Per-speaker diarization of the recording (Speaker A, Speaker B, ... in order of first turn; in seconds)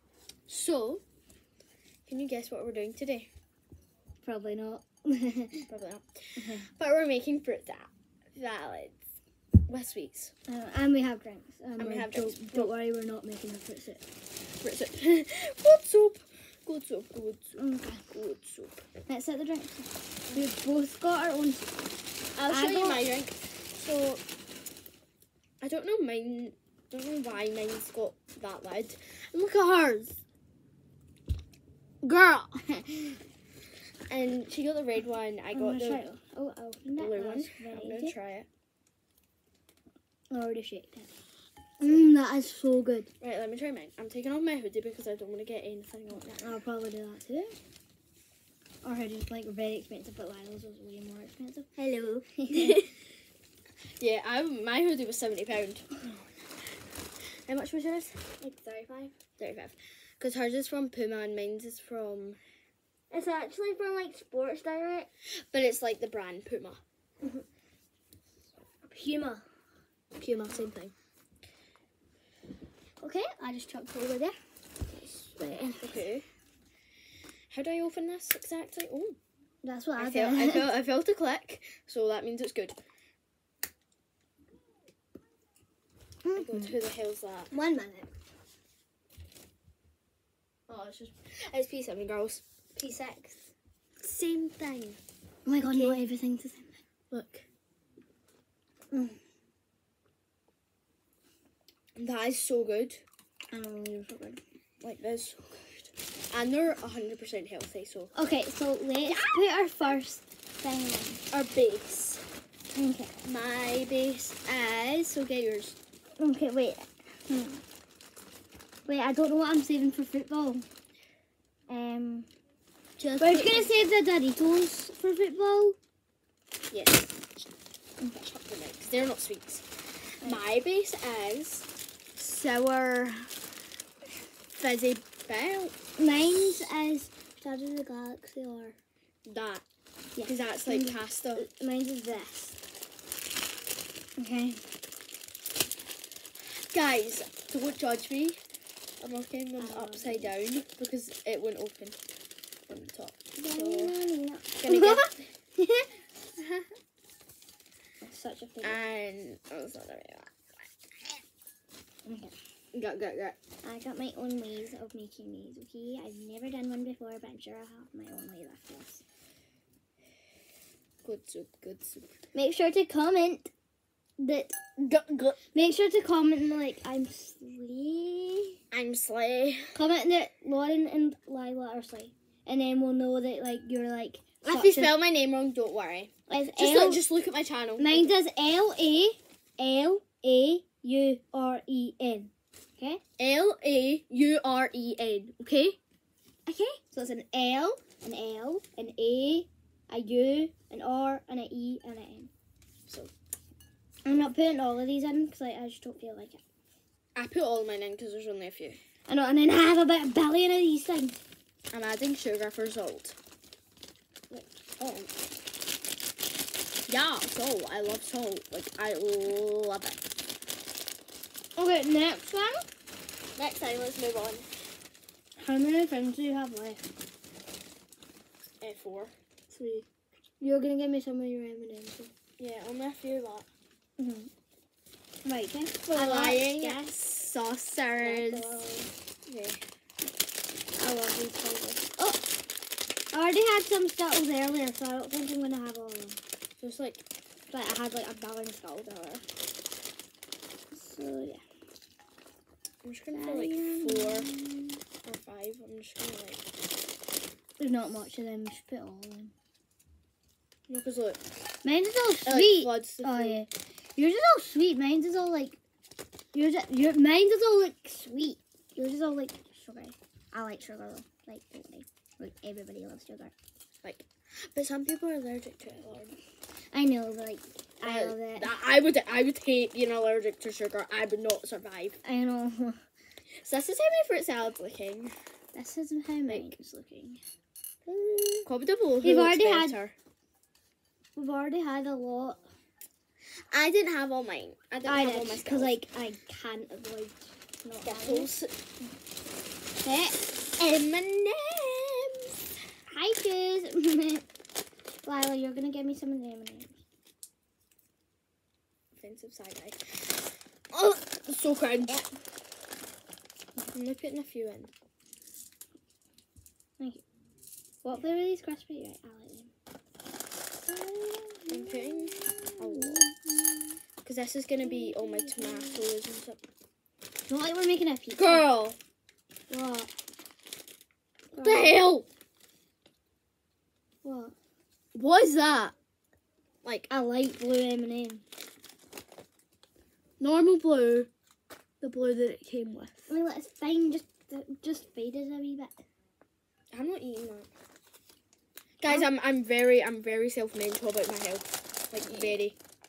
Speaker A: 0.5-1.0, 2.1-3.3, 5.7-9.0, 9.7-10.3, 11.8-12.7, 14.6-18.9, 22.4-24.2, 25.6-30.2, 34.1-36.0, 37.0-38.5, 43.2-46.4, 51.8-53.0, 54.0-55.9, 57.5-62.4, 65.2-66.8, 70.2-70.9, 75.8-76.3, 77.5-79.2, 80.0-82.8, 86.3-87.5, 90.7-92.4, 94.0-95.0, 95.6-96.0, 97.1-97.5, 102.0-103.0, 104.8-108.1, 109.1-109.9, 111.3-112.2, 113.2-115.8, 123.0-123.7, 126.7-127.3, 128.2-133.4, 134.6-135.8, 139.3-139.6, 140.2-141.4, 146.7-148.4, 149.0-152.0, 152.7-154.0, 154.6-155.3, 156.4-156.7, 158.6-161.1, 162.7-163.4, 171.0-172.2, 174.8-175.4, 178.7-179.8, 184.4-188.1, 193.2-195.8, 202.9-203.1, 207.2-208.8, 211.7-213.2, 214.8-215.1, 216.9-220.0, 223.4-224.5, 228.6-229.1, 232.4-233.5, 235.8-238.7, 239.3-239.6, 246.6-247.0, 252.8-254.3, 255.1-256.5, 260.7-261.2, 262.2-263.4, 273.8-276.2, 277.8-282.0, 283.4-285.1, 286.3-286.6, 288.5-289.9, 293.5-295.8, 297.8-298.5, 300.6-302.3, 309.0-310.2, 310.7-312.1, 313.7-314.7, 321.5-323.1, 324.0-326.4, 328.2-328.8, 331.3-332.1, 334.9-335.7, 336.6-336.9, 340.2-341.1, 341.8-343.1, 346.7-347.5, 348.8-352.6
Speaker B: 4.2-5.7, 6.4-6.7, 10.5-14.0, 17.6-18.1, 19.1-21.9, 22.5-23.1, 32.0-33.2, 35.5-38.1, 40.3-41.1, 41.8-43.1, 46.1-47.6, 48.8-52.8, 63.1-65.1, 68.8-69.5, 73.0-74.4, 74.9-76.1, 79.6-80.7, 86.2-86.8, 87.5-88.1, 92.8-93.5, 95.5-96.8, 98.9-99.2, 103.5-104.4, 108.2-111.2, 112.8-113.2, 116.2-117.6, 118.9-120.7, 121.7-122.3, 123.2-125.8, 136.0-138.8, 140.2-142.6, 144.2-144.6, 149.6-150.3, 153.4-155.9, 158.0-158.8, 162.1-162.3, 163.6-169.0, 172.3-173.5, 174.2-174.6, 175.5-178.6, 179.7-185.0, 186.3-187.0, 187.8-193.0, 196.5-202.3, 204.1-206.4, 209.1-211.2, 221.6-222.7, 225.4-226.9, 229.5-229.8, 230.4-232.1, 234.0-234.3, 235.2-236.9, 238.0-238.9, 240.8-242.2, 243.1-246.2, 247.5-249.2, 250.7-251.4, 253.1-254.8, 257.6-259.3, 261.6-265.6, 266.3-273.3, 276.7-278.6, 282.0-282.8, 285.6-287.2, 287.9-288.5, 289.0-289.8, 291.2-292.5, 294.8-298.3, 299.8-300.2, 302.9-304.2, 305.1-306.8, 317.8-319.5, 320.7-323.8, 324.6-325.9, 327.3-328.5, 329.5-329.9, 331.3-331.8, 334.0-334.4, 336.9-338.2, 343.1-345.8